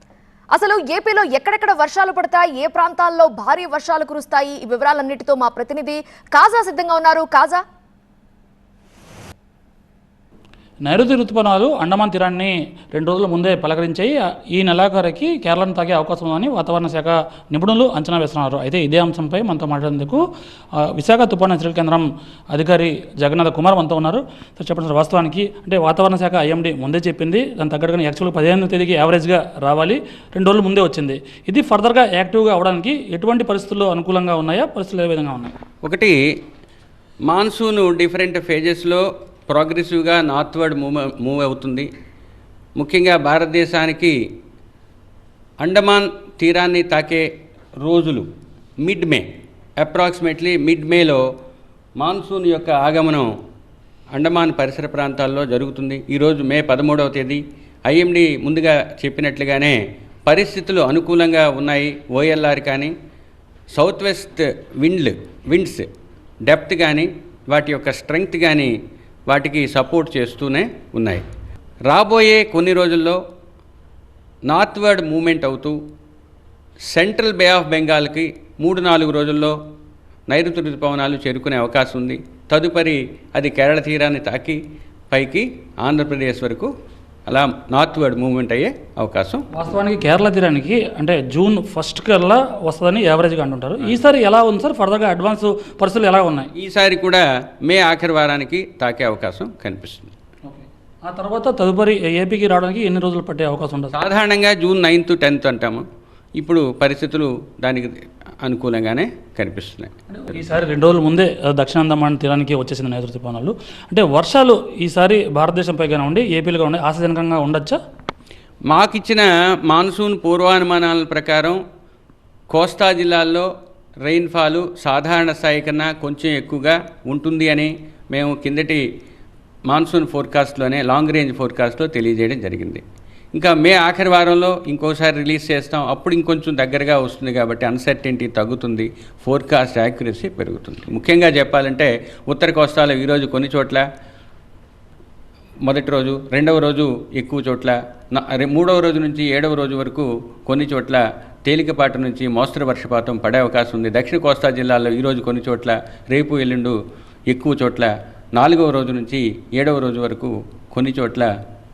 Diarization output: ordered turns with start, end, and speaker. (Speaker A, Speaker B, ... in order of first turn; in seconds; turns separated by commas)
Speaker A: 0.5-7.6, Speaker B: 10.9-20.2, Speaker B: 20.8-35.5, Speaker C: 35.8-36.2, Speaker C: 37.3-41.9, Speaker C: 42.8-44.1, Speaker C: 45.6-47.3, Speaker C: 47.8-48.3, Speaker C: 48.8-49.3, Speaker C: 49.8-51.2, Speaker C: 52.0-53.3, Speaker C: 54.1-62.9, Speaker C: 63.7-65.9, Speaker C: 66.5-68.7, Speaker C: 69.3-71.2, Speaker C: 71.9-73.2, Speaker C: 74.5-75.8, Speaker C: 76.9-79.6, Speaker C: 80.3-84.6, Speaker C: 85.1-86.7, Speaker C: 87.3-89.5, Speaker B: 89.5-96.5, Speaker C: 96.5-100.1, Speaker B: 100.5-103.9, Speaker C: 103.9-105.8, Speaker C: 106.4-109.9, Speaker B: 110.1-117.8, Speaker C: 118.7-121.6, Speaker C: 122.5-123.5, Speaker C: 124.0-128.8, Speaker C: 129.7-132.8, Speaker C: 133.3-143.8, Speaker C: 145.7-156.8, Speaker C: 157.3-161.3